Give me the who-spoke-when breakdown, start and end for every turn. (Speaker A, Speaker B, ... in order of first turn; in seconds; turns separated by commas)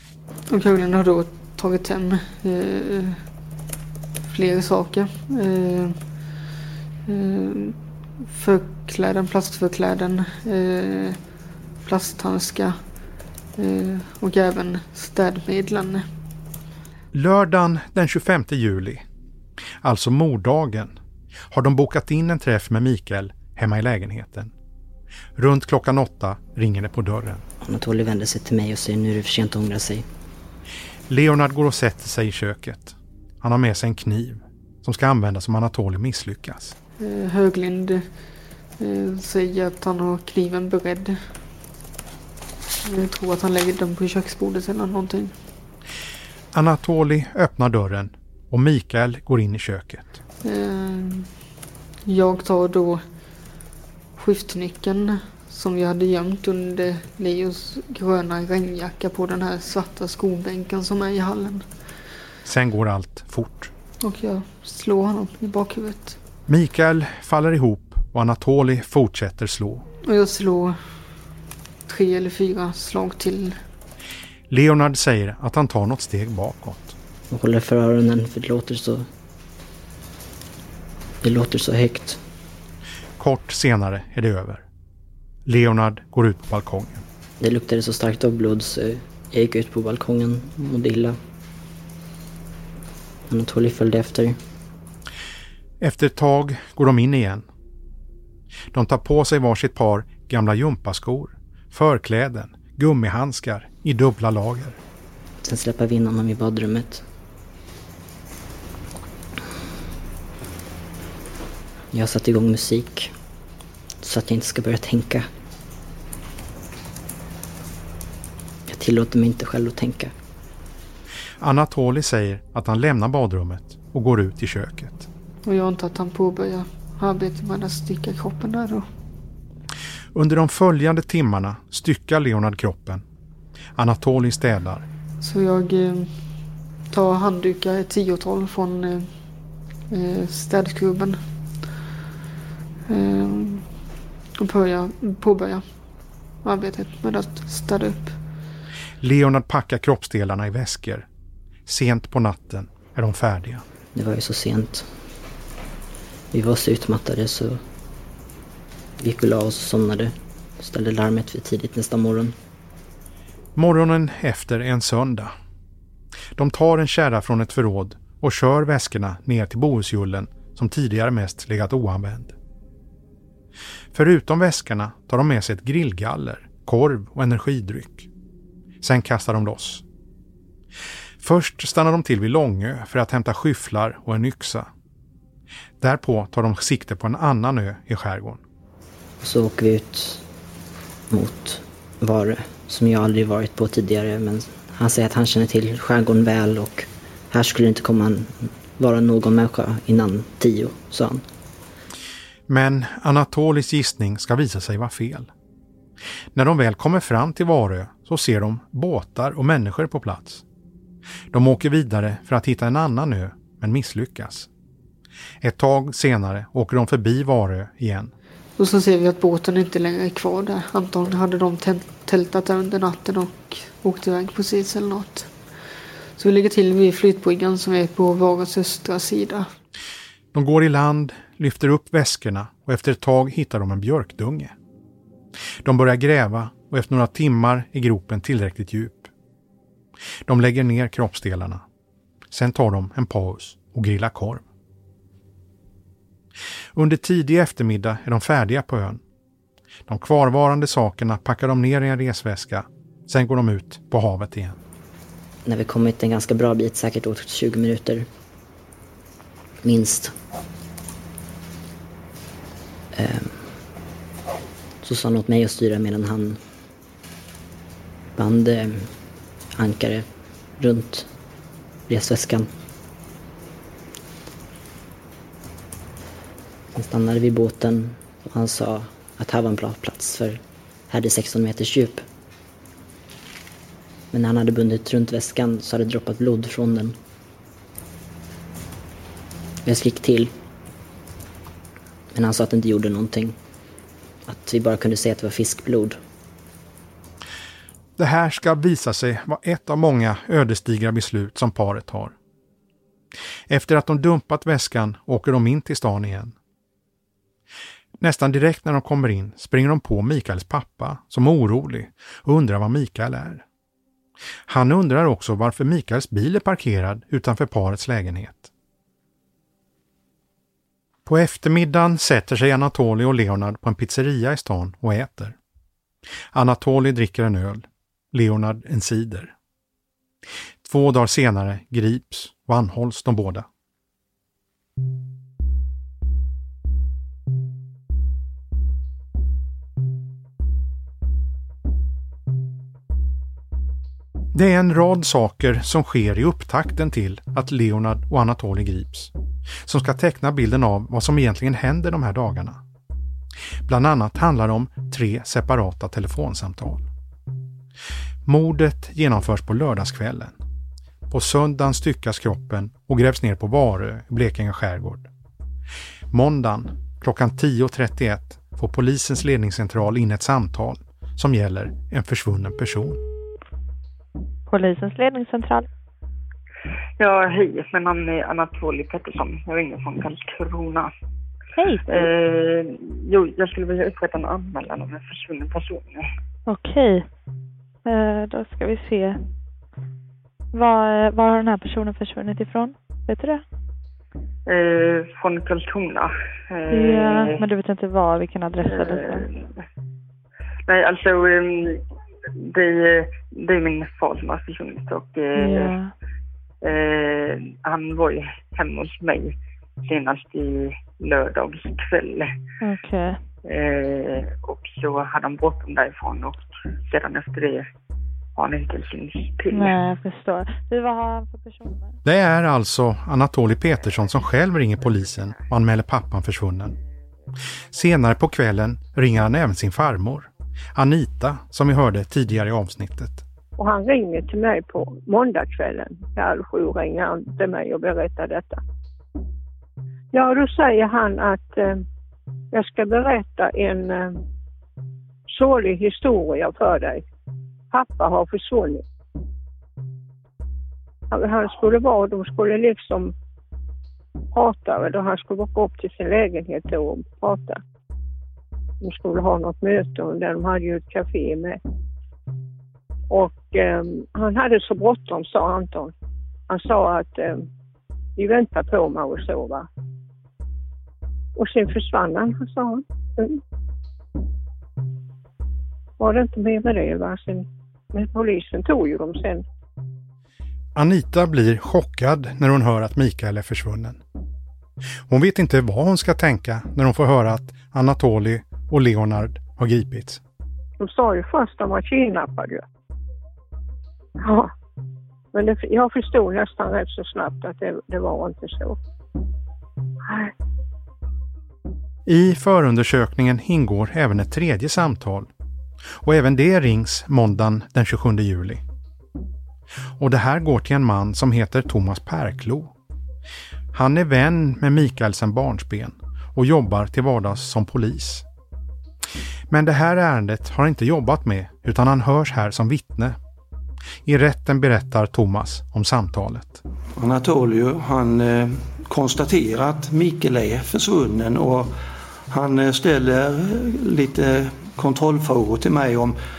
Speaker A: 0.5-3.2, Speaker A: 4.3-6.0, Speaker A: 7.1-11.2, Speaker A: 11.8-12.8, Speaker A: 13.6-16.0, Speaker B: 17.1-19.0, Speaker B: 19.8-20.9, Speaker B: 21.5-24.5, Speaker B: 25.4-27.4, Speaker C: 27.6-30.1, Speaker B: 31.1-36.8, Speaker A: 37.0-38.0, Speaker A: 38.8-41.2, Speaker A: 42.8-45.4, Speaker B: 46.5-50.2, Speaker A: 50.4-51.3, Speaker A: 52.1-53.0, Speaker A: 54.2-61.6, Speaker B: 62.4-63.7, Speaker A: 64.0-66.2, Speaker B: 66.5-69.9, Speaker A: 70.0-70.8, Speaker A: 71.9-73.6, Speaker B: 74.5-77.0, Speaker C: 77.3-79.1, Speaker C: 81.2-82.2, Speaker B: 83.2-84.6, Speaker B: 85.5-87.0, Speaker C: 87.4-91.2, Speaker C: 93.3-94.4, Speaker B: 95.8-97.5, Speaker B: 98.7-104.8, Speaker C: 105.4-107.0, Speaker C: 111.9-113.1, Speaker C: 114.0-115.2, Speaker C: 118.7-120.1, Speaker B: 121.4-125.1, Speaker A: 125.4-128.8, Speaker B: 130.1-133.0, Speaker B: 133.8-134.8, Speaker A: 135.2-136.1, Speaker A: 136.9-139.1, Speaker A: 139.9-141.2, Speaker A: 142.9-143.6, Speaker A: 144.4-145.6, Speaker A: 146.4-148.2, Speaker B: 149.0-151.1, Speaker B: 151.7-153.6, Speaker C: 153.9-154.9, Speaker C: 156.3-157.6, Speaker C: 159.0-162.3, Speaker B: 163.6-165.3, Speaker B: 166.3-172.3, Speaker B: 173.9-178.1, Speaker B: 178.8-179.8, Speaker B: 181.2-184.7, Speaker B: 185.8-188.4, Speaker C: 189.2-190.2, Speaker C: 191.1-201.2, Speaker B: 202.5-205.3, Speaker B: 206.3-210.4, Speaker B: 211.3-214.5, Speaker B: 215.4-218.1, Speaker A: 218.6-225.3, Speaker A: 226.2-229.5, Speaker B: 230.3-234.5, Speaker B: 235.6-239.1, Speaker B: 240.3-241.6, Speaker B: 242.3-244.4, Speaker B: 246.7-249.0, Speaker B: 249.9-254.6, Speaker C: 255.4-258.1, Speaker C: 259.6-260.1, Speaker C: 262.9-263.4, Speaker C: 264.8-266.4, Speaker C: 268.1-268.9, Speaker C: 269.6-270.1, Speaker C: 270.6-271.1, Speaker C: 271.9-272.5, Speaker C: 276.7-282.0, Speaker C: 284.1-286.9, Speaker C: 289.6-290.3, Speaker C: 292.1-293.4, Speaker C: 294.3-296.0, Speaker B: 298.0-302.1, Speaker B: 303.5-306.3, Speaker B: 308.0-313.4, Speaker B: 314.5-318.5, Speaker B: 321.1-325.4, Speaker B: 326.3-329.3, Speaker B: 330.6-333.4, Speaker B: 344.3-349.1, Speaker B: 349.6-352.6, Speaker B: 353.6-356.9, Speaker B: 358.2-360.4, Speaker B: 361.1-365.1, Speaker B: 366.1-373.0, Speaker D: 374.5-375.7, Speaker E: 377.0-380.9, Speaker D: 381.6-382.1, Speaker E: 381.9-386.1, Speaker D: 386.5-387.1, Speaker D: 387.8-389.2, Speaker D: 390.5-393.4, Speaker E: 394.4-397.4, Speaker D: 396.7-399.3, Speaker E: 398.6-399.6, Speaker E: 400.7-401.8, Speaker E: 402.4-405.8, Speaker D: 405.4-405.9, Speaker E: 406.6-412.4, Speaker D: 412.6-413.2, Speaker E: 413.4-417.6, Speaker E: 418.3-419.8, Speaker D: 419.5-421.9, Speaker B: 422.0-426.8, Speaker B: 427.7-433.2, Speaker F: 433.6-438.6, Speaker F: 440.1-441.8, Speaker F: 442.5-444.2, Speaker F: 445.3-447.0, Speaker F: 447.7-448.8, Speaker F: 451.1-453.1, Speaker F: 454.3-457.6, Speaker F: 458.8-461.6, Speaker F: 463.1-465.9, Speaker F: 466.5-467.4, Speaker F: 468.2-469.7, Speaker F: 471.4-473.4, Speaker F: 476.0-479.4, Speaker B: 480.8-484.0, Speaker B: 485.1-490.2, Speaker F: 490.8-492.6, Speaker F: 494.2-494.5, Speaker F: 495.3-498.8, Speaker F: 500.1-500.3, Speaker B: 502.1-505.3, Speaker B: 506.0-508.6, Speaker B: 510.0-512.7, Speaker B: 513.7-518.2, Speaker B: 519.5-523.2, Speaker B: 524.0-526.6, Speaker G: 527.0-531.7, Speaker G: 532.3-536.2